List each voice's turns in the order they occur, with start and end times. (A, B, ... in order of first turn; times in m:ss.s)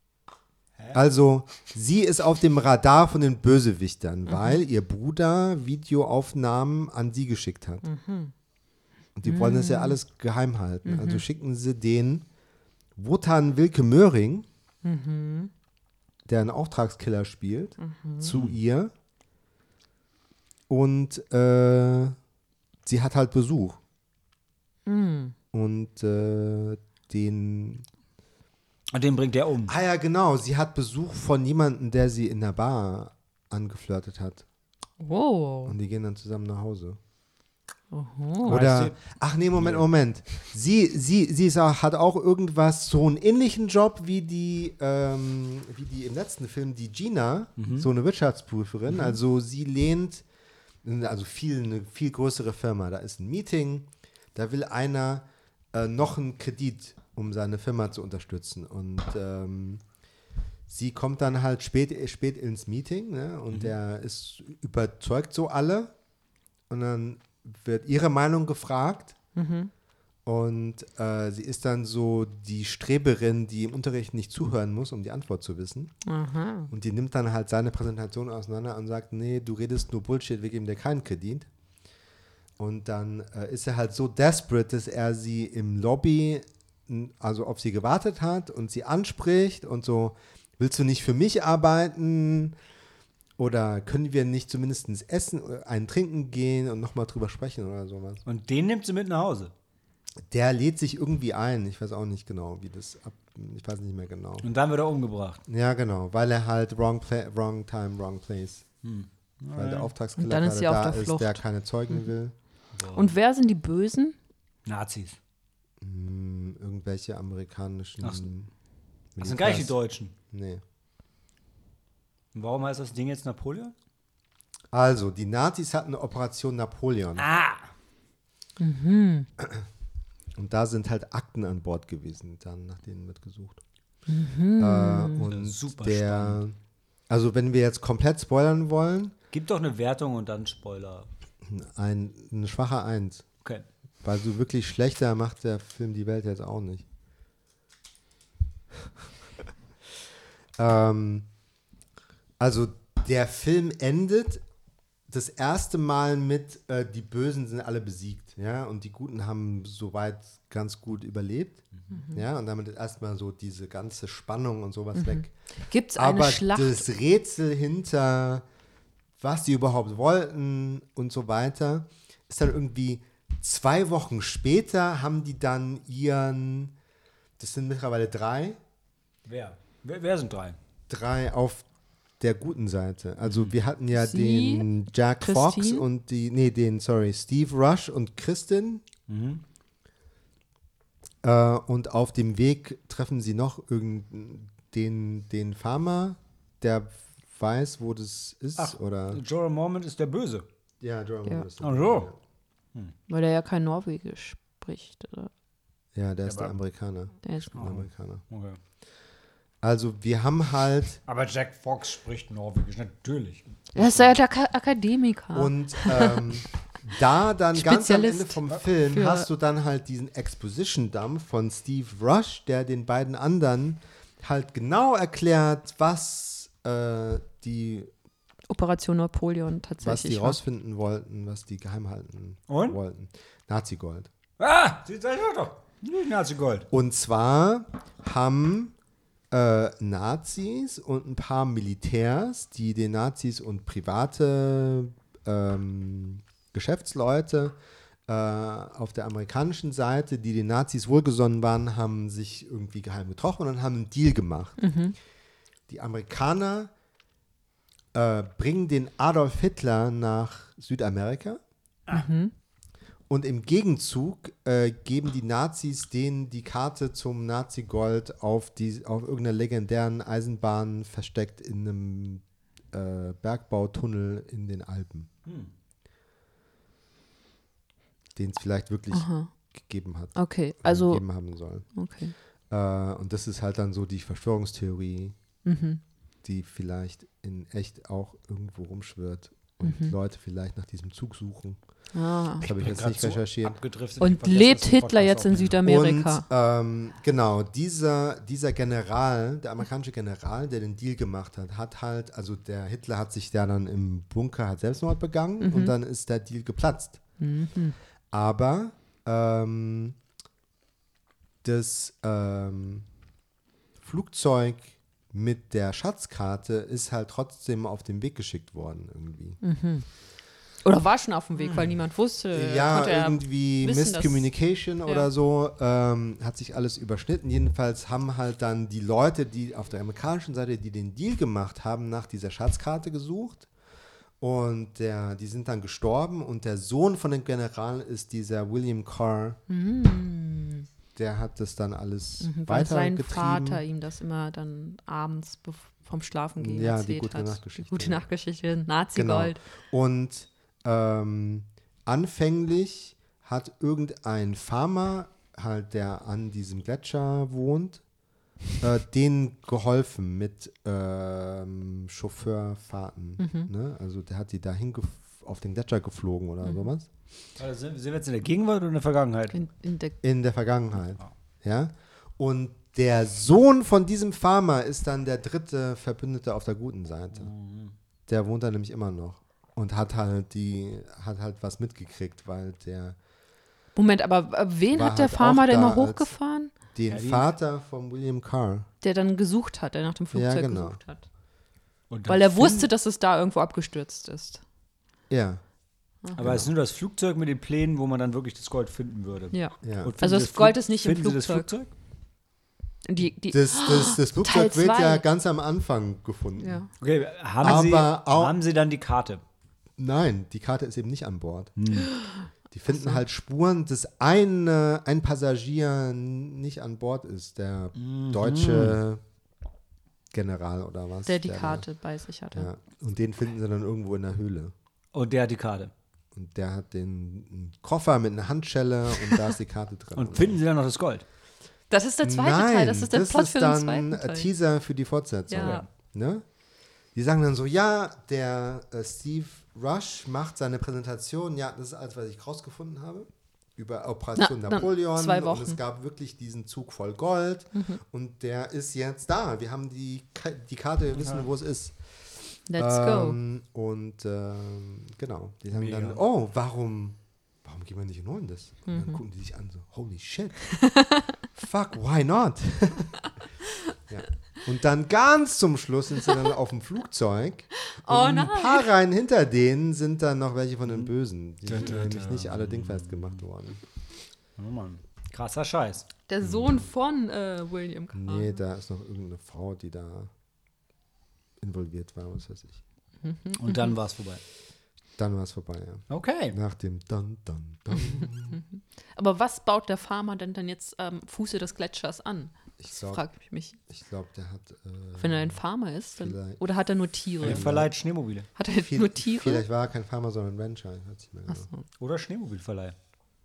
0:00.9-0:07.8 A
0:04.3-0:04.6 B
0:07.8-0:08.3 B
0:09.2-0:12.3 A
0:09.2-0:10.0 B
0:10.8-0:11.2 B
0:13.0-0:14.5 A
0:14.8-0:15.5 B
0:16.3-0:18.9 A
0:17.8-0:18.3 B
0:20.7-0:22.2 A
0:22.8-0:23.8 A
0:24.9-0:25.4 B
0:25.5-0:27.9 A
0:28.9-0:29.7 C
0:29.7-0:34.4 A
0:35.0-0:35.8 B
0:35.7-0:37.0 A
0:37.9-0:38.6 B
0:38.5-0:39.9 C
0:38.5-0:50.2 A
0:47.6-0:47.9 C
0:50.8-0:59.8 A
1:00.7-1:05.9 A
1:06.7-1:09.2 A
1:09.4-1:09.7 B
1:10.3-1:15.9 A
1:16.0-1:16.7 B
1:16.7-1:21.5 A
1:22.6-1:32.6 A
1:33.4-1:38.2 A
1:38.2-1:39.5 C
1:40.3-1:44.5 A
1:44.4-1:45.4 C
1:45.5-1:48.7 A
1:48.8-1:49.9 C
1:49.6-1:52.4 A
1:50.2-1:52.1 B
1:52.8-1:53.2 C
1:52.9-1:54.2 B
1:54.7-1:55.2 C
1:55.8-1:58.5 A
1:58.0-1:58.3 C
1:59.2-1:59.8 A
1:59.2-2:00.1 C
2:00.3-2:00.6 A
2:02.3-2:03.7 C
2:04.7-2:07.3 A
2:07.2-2:07.7 C
2:08.6-2:09.3 B
2:10.4-2:13.6 A
2:14.1-2:15.3 B
2:14.6-2:16.6 A
2:15.2-2:16.4 C
2:17.1-2:19.1 A
2:19.3-2:21.1 C
2:21.5-2:23.3 A
2:24.0-2:26.8 A
2:30.6-2:31.3 A
2:32.4-2:34.4 A
2:35.1-2:45.3 A
2:41.9-2:42.2 B
2:45.0-2:46.8 B
2:46.0-2:48.4 A
2:49.2-2:56.7 A
2:57.4-2:58.6 A
2:59.2-3:00.6 C
3:00.9-3:01.7 A
3:02.2-3:08.8 A
3:03.2-3:03.5 C
3:03.9-3:04.7 B
3:05.2-3:05.8 B
3:09.1-3:09.4 C
3:11.2-3:19.2 A
3:18.6-3:20.5 C
3:20.8-3:22.2 A
3:21.6-3:22.1 C
3:23.1-3:25.3 B
3:26.0-3:28.2 A
3:26.3-3:26.6 C
3:27.2-3:27.6 B
3:27.6-3:28.6 C
3:29.6-3:31.0 A
3:31.1-3:34.1 C
3:33.8-3:36.2 B
3:33.8-3:34.0 A
3:35.3-3:47.9 A
3:37.5-3:39.3 B
3:48.5-3:50.4 B
3:49.8-3:54.1 A
3:52.5-3:52.8 C
3:54.4-3:56.7 C
3:56.7-3:58.7 A
3:59.3-4:14.6 A
4:14.6-4:15.0 B
4:15.7-4:16.7 A
4:17.9-4:21.4 A
4:21.9-4:22.3 B
4:23.1-4:35.1 A
4:35.2-4:35.5 C
4:38.2-4:41.8 A
4:38.9-4:39.4 B
4:40.2-4:42.1 B
4:42.5-4:45.2 A
4:45.4-4:45.8 B
4:46.2-4:53.6 A
4:49.6-4:50.0 B
4:51.9-4:52.5 B
4:52.4-4:55.6 C
4:54.0-4:56.3 B
4:55.6-5:07.0 A
5:05.4-5:05.8 B
5:07.2-5:07.8 B
5:08.1-5:10.0 A
5:11.4-5:12.9 A
5:13.8-5:19.4 A
5:19.4-5:19.9 B
5:20.6-5:25.1 B
5:21.4-5:21.8 C
5:22.3-5:33.5 A
5:34.2-5:39.4 A
5:39.5-5:40.7 B
5:41.0-5:43.6 A
5:42.2-5:49.4 B
5:46.4-5:48.1 A
5:49.0-5:57.9 A
5:58.6-6:06.9 A
6:03.2-6:03.5 B
6:06.4-6:06.7 B
6:07.4-6:09.4 C
6:09.3-6:10.0 B
6:10.0-6:17.3 A
6:17.1-6:17.8 C
6:18.1-6:23.0 A
6:23.8-6:26.5 B
6:24.7-6:26.1 A
6:26.7-6:28.7 A
6:26.9-6:27.2 C
6:28.8-6:31.1 B
6:30.1-6:30.8 A
6:31.9-6:32.7 C
6:32.1-6:34.4 B
6:35.1-6:35.5 A
6:36.0-6:36.4 B
6:36.1-6:36.5 A
6:36.2-6:41.7 C
6:39.3-6:41.5 B
6:39.6-6:39.9 A
6:42.9-6:45.0 B
6:43.3-6:46.8 A
6:46.4-6:46.7 B
6:46.8-6:49.2 C
6:47.4-6:48.4 A
6:49.8-6:51.5 A
6:51.6-6:51.9 C
6:52.0-6:53.0 B
6:52.5-6:59.0 A
6:57.8-6:58.8 C
7:00.1-7:01.7 A
7:01.1-7:02.5 B
7:02.3-7:04.5 A
7:04.9-7:05.7 C
7:06.1-7:10.4 A
7:10.0-7:11.0 C
7:11.7-7:14.3 B
7:12.0-7:16.3 A
7:15.3-7:15.7 B
7:15.4-7:15.7 C
7:16.9-7:40.6 A
7:24.2-7:25.6 B
7:27.5-7:27.8 B
7:31.0-7:31.3 C
7:32.5-7:33.2 B
7:35.5-7:36.0 C
7:38.7-7:39.0 B
7:40.6-7:41.0 B
7:41.4-7:43.1 A
7:43.8-7:53.6 A
7:47.7-7:48.7 B
7:50.7-7:50.9 C
7:51.5-7:53.2 C
7:54.4-7:55.9 C
7:56.1-7:58.4 B
7:56.2-7:56.6 A
7:57.9-8:00.1 A
8:01.4-8:02.6 A
8:03.0-8:03.7 B
8:03.4-8:04.2 C
8:05.0-8:08.4 A
8:05.9-8:06.4 C
8:08.0-8:13.6 B
8:12.6-8:13.1 A
8:13.6-8:16.4 A
8:15.0-8:17.5 B
8:17.2-8:17.7 A
8:17.2-8:18.3 C
8:18.4-8:19.4 B
8:18.4-8:21.5 A
8:21.3-8:21.6 B
8:21.8-8:22.8 C